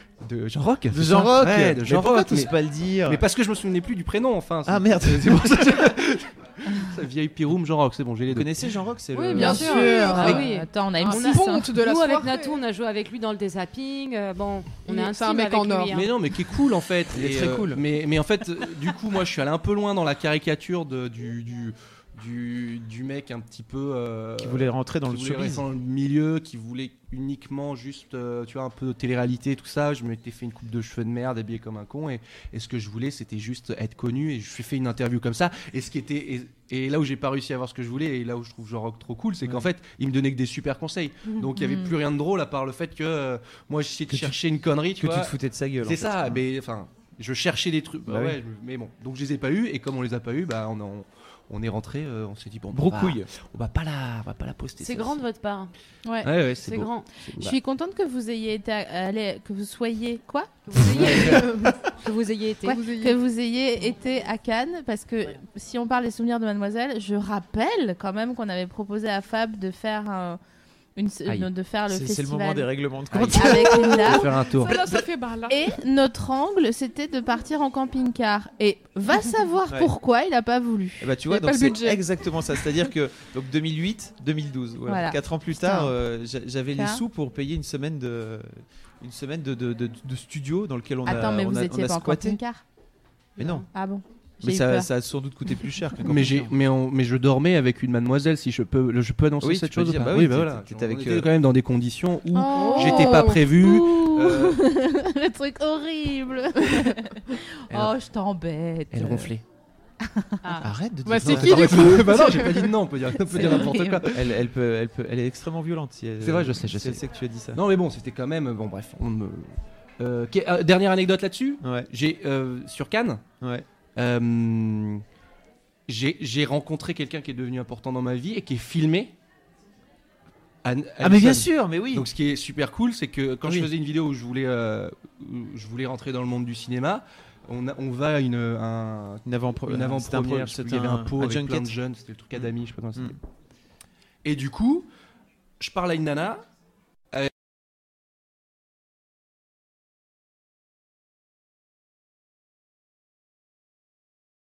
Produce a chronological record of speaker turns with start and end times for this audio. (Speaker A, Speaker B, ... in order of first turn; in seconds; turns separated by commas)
Speaker A: 0.2-8.7, Speaker B: 0.9-3.2, Speaker B: 4.6-6.0, Speaker B: 8.3-10.1, Speaker C: 9.1-16.1, Speaker D: 9.3-10.5, Speaker E: 9.3-11.7, Speaker D: 11.0-12.5, Speaker D: 14.9-16.0, Speaker A: 15.9-55.2, Speaker B: 17.1-17.8, Speaker B: 24.4-25.6, Speaker E: 41.5-41.9, Speaker B: 44.1-44.4, Speaker B: 45.0-46.4, Speaker B: 48.1-48.4, Speaker B: 52.7-53.3, Speaker C: 54.8-55.7, Speaker E: 56.0-56.3, Speaker A: 56.2-57.6, Speaker C: 56.6-57.1, Speaker E: 57.4-60.8, Speaker C: 60.7-62.8, Speaker A: 60.9-61.4, Speaker D: 61.2-61.7, Speaker D: 62.6-63.2, Speaker E: 62.6-70.4, Speaker E: 71.0-72.7, Speaker A: 71.2-71.5, Speaker B: 71.9-74.4, Speaker A: 73.1-74.9, Speaker E: 73.3-74.3, Speaker D: 74.0-75.6, Speaker E: 75.5-81.1, Speaker B: 81.0-92.4, Speaker D: 81.3-82.0, Speaker E: 84.9-85.9, Speaker E: 86.8-87.0, Speaker E: 91.0-92.6, Speaker C: 93.3-93.7, Speaker B: 93.4-93.7, Speaker E: 93.7-94.9, Speaker B: 94.4-96.5, Speaker A: 96.0-104.7, Speaker B: 99.4-101.3, Speaker E: 102.3-109.3, Speaker D: 102.5-103.4, Speaker A: 108.9-109.4, Speaker E: 110.1-110.6, Speaker B: 110.6-112.0, Speaker D: 111.0-112.7, Speaker A: 111.2-114.4, Speaker E: 113.3-114.0, Speaker B: 114.1-117.6, Speaker A: 116.2-123.2, Speaker B: 121.6-121.9, Speaker B: 123.4-123.7, Speaker A: 124.0-125.0, Speaker A: 125.9-129.1, Speaker A: 130.6-143.2, Speaker B: 131.0-132.1, Speaker B: 133.4-133.7, Speaker B: 139.2-141.7, Speaker B: 142.3-143.2, Speaker A: 144.2-144.9, Speaker A: 145.6-146.4